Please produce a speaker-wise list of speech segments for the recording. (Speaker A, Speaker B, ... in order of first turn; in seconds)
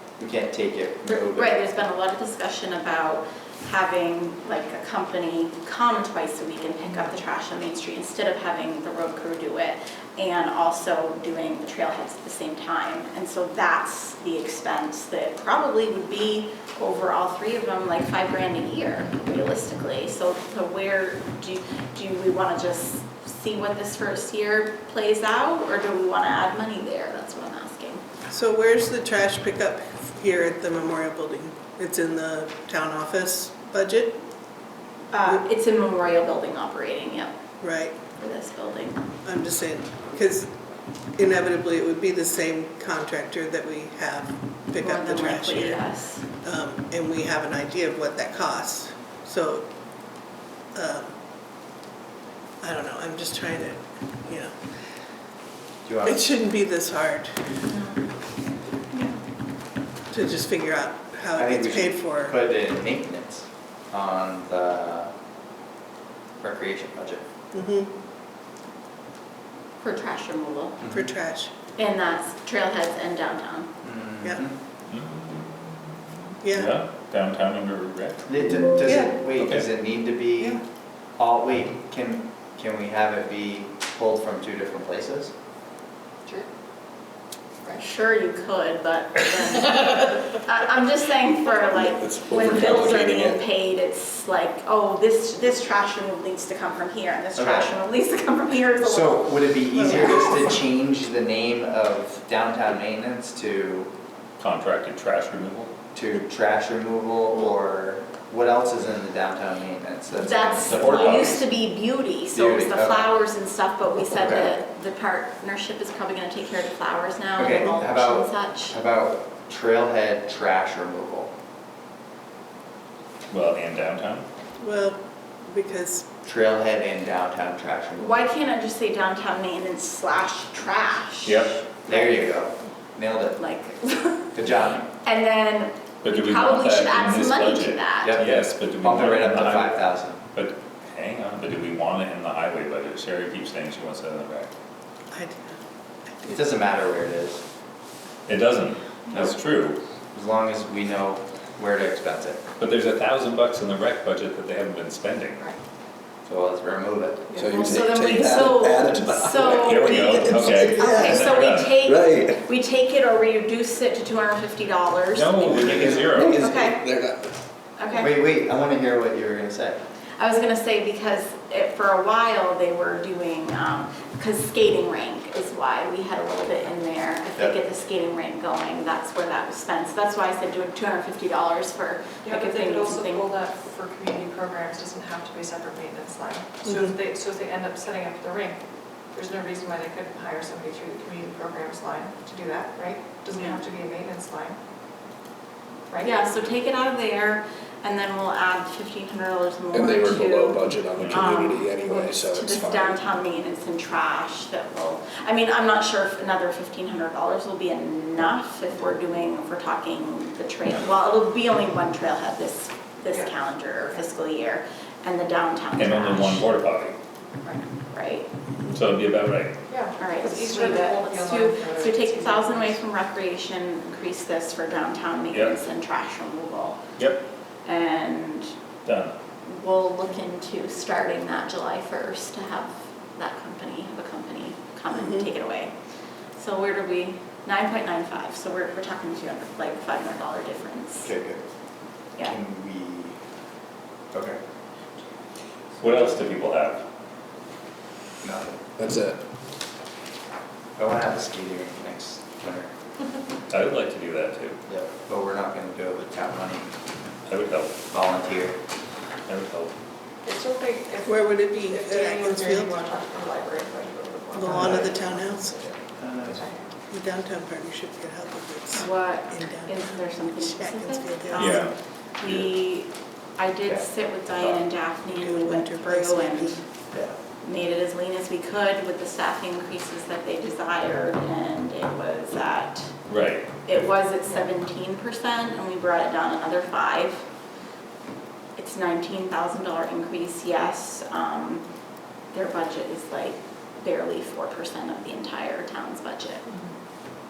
Speaker A: 0.2-1.6, 55.8-56.2, 61.4-65.1, 66.4-67.2, 70.8-71.1, 73.8-74.5, 78.3-80.6, 81.2-85.3, 97.3-97.7, 98.8-103.9, 105.9-111.4, 112.3-113.1, 114.0-114.5, 117.3-121.3, 126.2-128.2, 131.9-133.4, 134.3-134.9, 138.0-140.2, 146.3-147.4, 150.1-152.4, 156.2-157.4, 167.9-169.8, 241.0-241.4, 242.2-243.2, 244.1-244.4, 248.2-248.7, 250.8-252.7, 254.7-256.7, 257.9-258.6, 264.5-264.9, 266.0-266.4, 273.6-274.6
Speaker B: 1.1-28.0, 35.1-37.3, 38.1-39.0, 44.8-46.2, 57.6-58.3, 58.9-59.2, 69.8-70.8, 71.8-73.7, 87.8-100.3, 110.1-118.8, 128.0-132.2, 133.4-134.3, 135.0-138.2, 157.4-166.9, 167.8-168.1, 170.2-183.3, 193.3-193.6, 196.0-216.5, 217.9-218.3, 220.0-226.8, 227.6-228.5, 229.4-235.7, 236.3-241.1, 268.7-276.6, 277.4-282.9, 283.6-287.2, 288.6-291.6, 292.3-296.4
Speaker C: 28.3-34.2, 37.6-38.0, 39.2-40.5, 41.1-45.8, 46.4-49.6, 50.7-51.1, 52.6-54.9, 56.0-57.3, 60.1-62.4, 67.5-67.9, 70.9-71.5, 76.4-76.8, 78.8-79.2, 99.7-100.6, 124.6-126.1, 145.1-145.6, 146.1-146.6, 234.9-235.3, 261.0-262.9, 264.3-265.5, 266.9-271.7, 275.1-276.6
Speaker D: 74.9-75.9, 76.5-78.2, 79.4-79.7, 104.4-105.7, 110.6-111.5, 123.3-124.2, 131.2-131.7, 136.0-144.5, 148.3-149.8, 152.6-155.5, 159.6-161.8, 165.1-166.4, 201.0-201.3, 215.8-217.0, 218.7-219.6, 225.3-225.6, 227.0-227.2, 228.8-229.1, 245.8-246.8, 253.5-254.6, 257.3-257.7, 259.3-259.7, 271.4-272.5, 283.1-283.4
Speaker E: 91.7-93.4, 157.3-162.4, 165.5-167.3, 199.7-203.0, 248.8-249.2
Speaker F: 182.2-194.6, 195.9-196.2, 219.7-222.8, 260.2-266.7